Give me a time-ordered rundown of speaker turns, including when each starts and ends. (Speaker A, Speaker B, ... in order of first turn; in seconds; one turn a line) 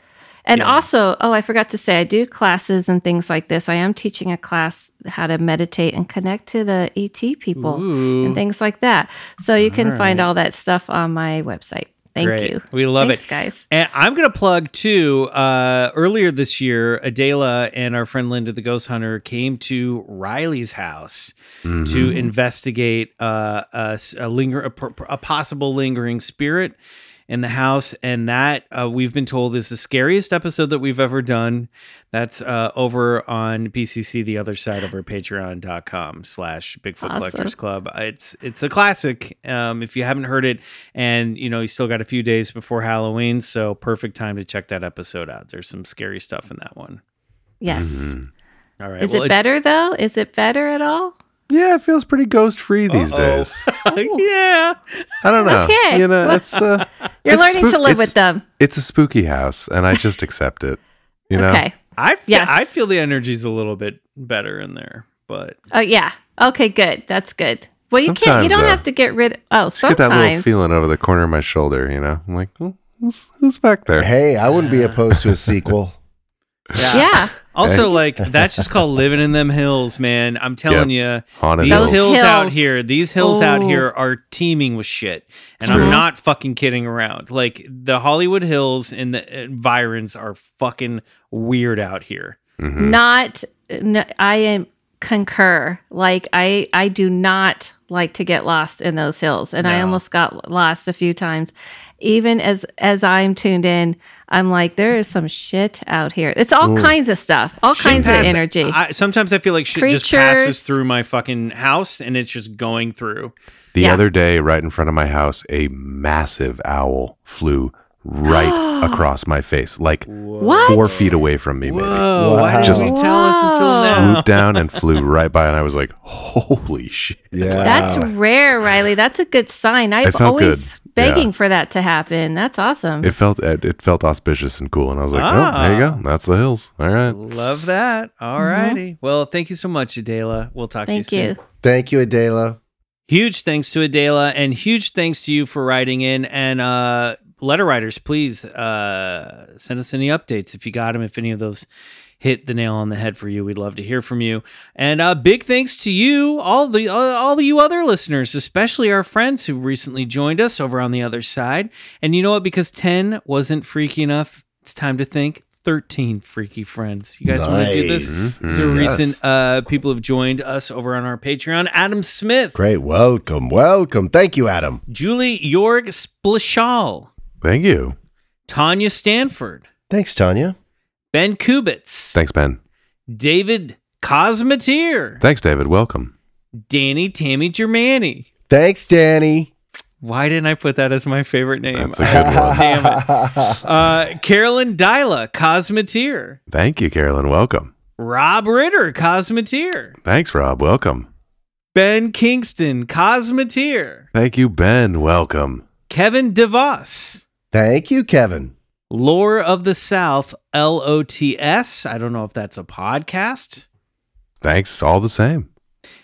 Speaker A: 0.5-13.6
Speaker B: 0.6-0.9
Speaker B: 7.6-8.4
Speaker B: 9.6-10.3
Speaker B: 12.2-21.3
Speaker C: 21.6-22.1
Speaker B: 21.9-26.8
Speaker A: 22.0-22.3
Speaker B: 27.3-47.0
Speaker A: 37.0-37.5
Speaker A: 47.6-48.1
Speaker C: 47.7-48.3
Speaker B: 48.8-49.4
Speaker A: 49.0-51.1
Speaker C: 51.5-53.6
Speaker B: 52.9-55.5
Speaker A: 53.9-54.2
Speaker C: 55.2-60.8
Speaker A: 55.4-56.4
Speaker A: 57.2-58.4
Speaker C: 61.3-61.6
Speaker A: 61.3-61.8
Speaker B: 62.0-65.6
Speaker A: 62.3-62.7
Speaker A: 65.7-70.5
Speaker C: 68.0-68.8
Speaker C: 69.8-74.1
Speaker D: 74.0-76.0
Speaker B: 74.5-75.0
Speaker B: 76.8-92.4
Speaker A: 76.9-77.3
Speaker C: 77.6-77.9
Speaker C: 80.7-82.0
Speaker A: 81.7-83.8
Speaker A: 85.6-86.0
Speaker C: 85.6-86.0
Speaker C: 92.6-93.0
Speaker A: 92.8-108.8
Speaker B: 99.6-100.0
Speaker D: 106.6-106.9
Speaker C: 107.8-108.4
Speaker B: 107.8-113.3
Speaker A: 109.8-110.8
Speaker C: 113.8-122.9
Speaker A: 118.3-119.0
Speaker B: 120.1-124.8
Speaker A: 120.4-120.9
Speaker D: 122.2-122.9
Speaker A: 122.8-124.2
Speaker C: 123.6-127.9
Speaker D: 127.3-128.1
Speaker B: 127.5-128.0
Speaker A: 127.6-133.1
Speaker C: 130.0-131.3
Speaker C: 133.0-137.2
Speaker B: 135.1-136.0
Speaker B: 137.1-141.3
Speaker A: 138.4-138.8
Speaker A: 140.9-141.4
Speaker D: 141.6-142.6
Speaker B: 143.1-151.7
Speaker B: 152.2-172.6
Speaker D: 167.3-169.2
Speaker C: 168.1-169.0
Speaker D: 172.6-174.8
Speaker B: 174.9-177.1
Speaker C: 177.4-178.0
Speaker B: 178.5-179.7
Speaker D: 179.9-180.6
Speaker B: 181.1-182.2
Speaker C: 182.1-182.6
Speaker B: 183.1-185.2
Speaker C: 185.2-186.1
Speaker B: 186.7-188.3
Speaker D: 188.5-189.5
Speaker B: 190.0-196.4
Speaker C: 191.8-192.6
Speaker D: 192.0-193.6
Speaker C: 196.5-197.7
Speaker B: 198.0-200.0
Speaker C: 200.0-201.1
Speaker B: 201.8-204.1
Speaker C: 204.1-205.7
Speaker B: 205.9-207.2
Speaker D: 207.5-208.5
Speaker B: 208.9-213.7
Speaker C: 214.4-215.5